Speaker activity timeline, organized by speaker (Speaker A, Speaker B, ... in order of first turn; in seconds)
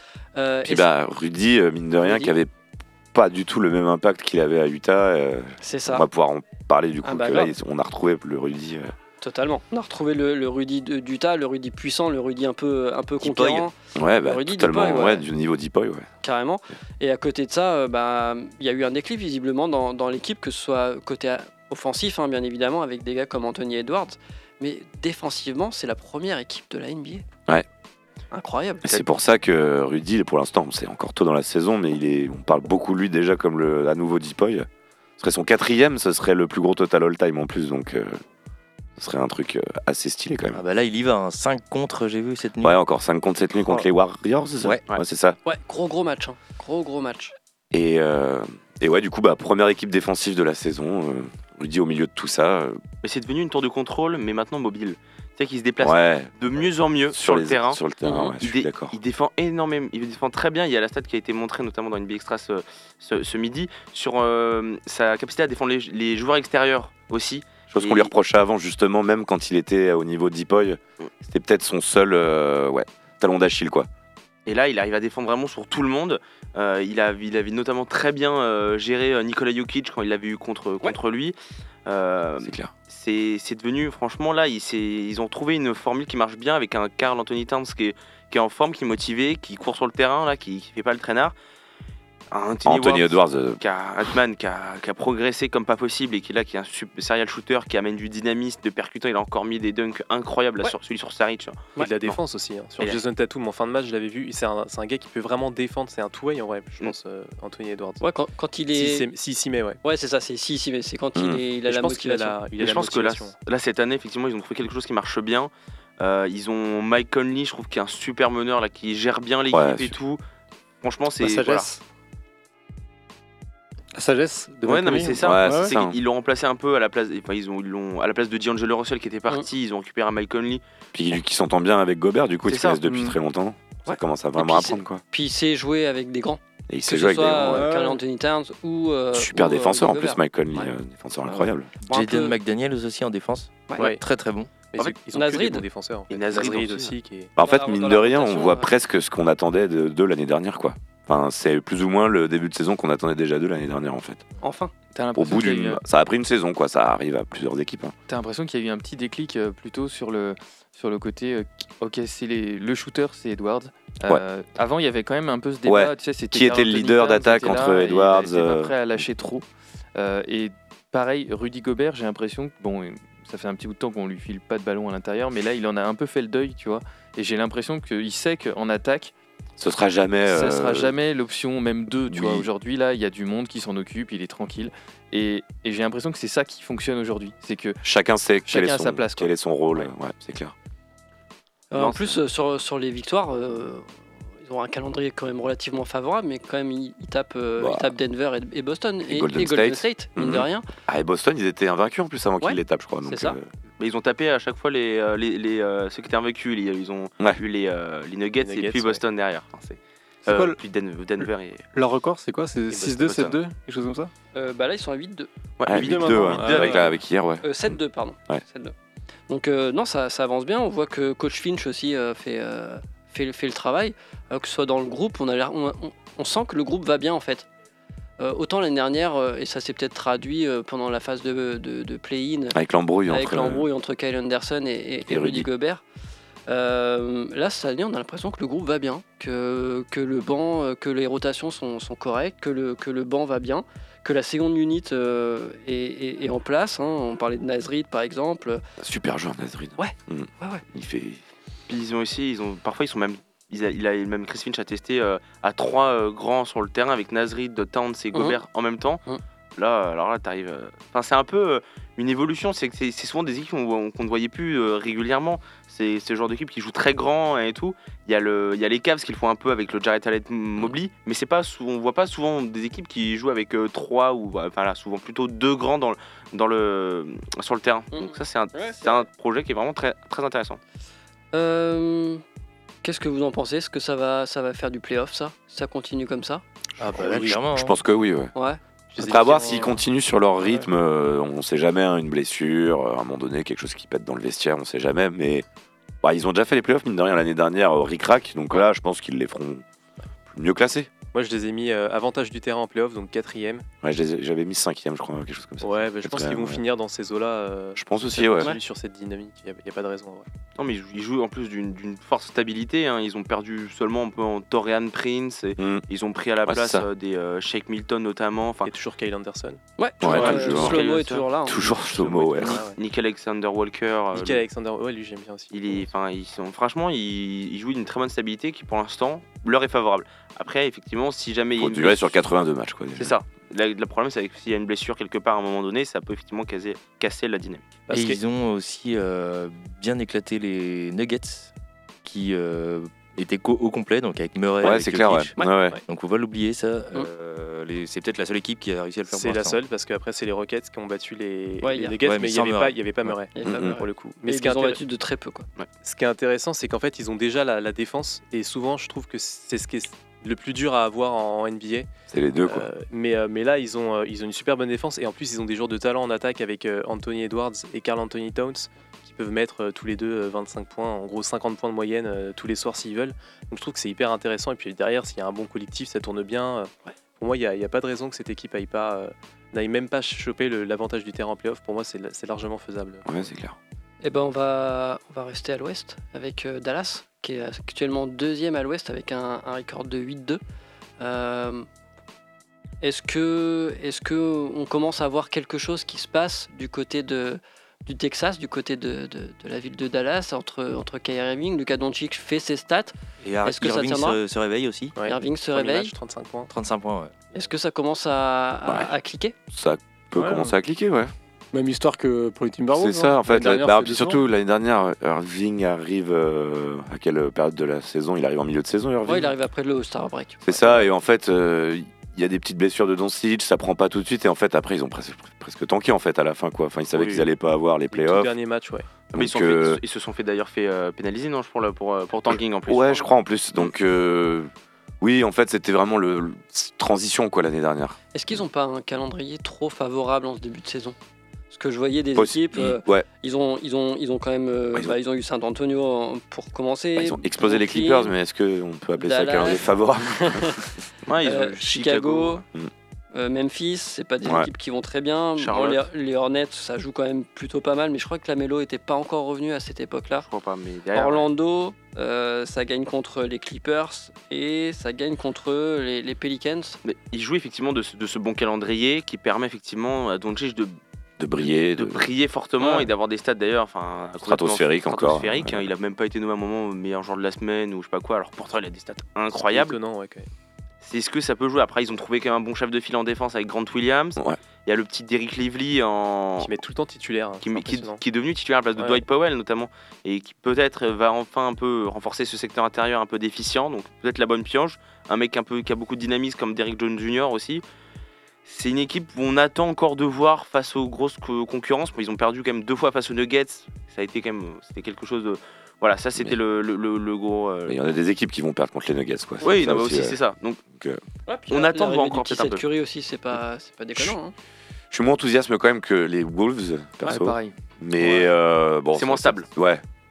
Speaker A: 0.3-0.9, 2.0-2.3, 5.6-6.1, 7.0-7.5, 9.2-15.2, 16.2-27.2, 28.3-28.9, 45.4-47.3, 108.0-109.1, 109.8-112.4, 133.8-140.7, 141.3-142.4, 145.1-145.6, 147.4-148.7, 154.4-154.7, 191.7-193.9, 194.4-200.7, 202.4-203.4, 214.3-215.3, 217.4-218.7, 219.3-227.5, 228.2-235.8, 236.5-248.6, 249.8-250.6, 258.1-258.4, 277.9-279.0, 281.3-282.2, 282.8-286.4, 288.3-288.6, 319.8-321.6, 345.4-345.7, 351.6-351.9, 353.3-355.5, 384.0-390.4, 391.0-391.7, 392.8-404.2, 405.0-405.9, 407.3-409.3, 419.1-420.9, 438.1-440.9, 441.5-448.1, 448.9-450.6, 451.2-452.4, 453.1-460.3, 460.9-466.8, 472.6-472.9, 511.3-514.3
Speaker B: 0.6-2.5, 3.1-8.9, 13.9-16.1, 28.8-34.7, 35.2-38.2, 39.0-40.6, 42.6-45.4, 47.7-52.8, 55.8-59.0, 67.7-73.9, 82.4-82.7, 92.6-93.6, 111.2-111.4, 119.5-119.9, 125.2-126.0, 130.9-135.0, 136.7-137.7, 139.1-141.7, 147.3-154.2, 155.1-157.9, 165.6-169.0, 179.6-180.9, 182.1-182.5, 187.8-190.5, 191.8-192.0, 197.6-197.9, 199.1-203.5, 215.7-217.8, 232.5-233.7, 235.1-235.4, 248.8-251.2, 287.4-288.3, 288.9-295.4, 296.0-299.6, 300.2-300.9, 303.8-306.6, 307.8-308.5, 315.6-315.8, 316.4-316.9, 320.0-320.9, 321.4-322.6, 331.6-333.1, 344.6-345.8, 353.4-353.8, 362.1-362.7, 383.0-383.5, 408.6-408.9, 409.5-411.1, 412.7-419.3, 420.4-428.3, 429.1-429.8, 432.7-438.0, 442.1-443.1, 446.9-450.7, 454.2-454.5, 471.2-472.0, 474.2-475.7, 507.7-510.2, 510.7-511.0, 514.9-519.8
Speaker C: 13.2-13.7, 40.5-42.8, 141.8-144.5, 286.8-287.8, 337.9-341.5, 342.0-345.3, 345.9-349.6, 352.0-353.2, 403.2-404.9, 406.5-407.1
Speaker D: 53.0-68.1, 74.5-91.3, 92.3-102.2, 112.6-120.2, 120.8-121.7, 124.6-130.6, 132.4-132.8, 146.1-146.9, 203.8-211.7, 212.7-213.4, 215.6-216.9, 251.7-259.0, 259.6-280.6, 310.6-318.7, 320.0-324.4, 325.5-332.3, 332.9-337.7, 426.9-427.3, 429.1-433.7, 451.1-452.4, 455.4-455.9, 460.2-461.3, 466.8-470.8, 471.4-479.8, 480.8-486.5, 487.4-497.6, 498.4-507.8, 509.4-510.6, 511.5-512.6, 518.9-519.5
Speaker E: 101.8-108.0, 108.7-109.8, 111.7-113.3, 144.7-147.3, 208.4-209.0, 286.8-287.4, 288.9-289.8, 301.1-303.6, 305.6-310.3, 318.6-320.6, 322.4-322.8, 324.1-325.9, 337.9-338.2, 349.1-354.8, 355.8-361.9, 362.4-383.3, 404.9-406.5, 427.9-428.9, 479.4-480.3, 486.4-488.0, 488.8-489.0
Speaker F: 121.2-121.8, 123.9-125.7, 132.9-133.2, 137.5-138.0, 210.2-210.6, 211.7-214.1, 215.7-216.9, 410.1-410.5, 411.5-414.2
Speaker G: 154.9-155.8, 158.1-179.1, 180.2-187.8, 188.4-189.3, 517.0-517.6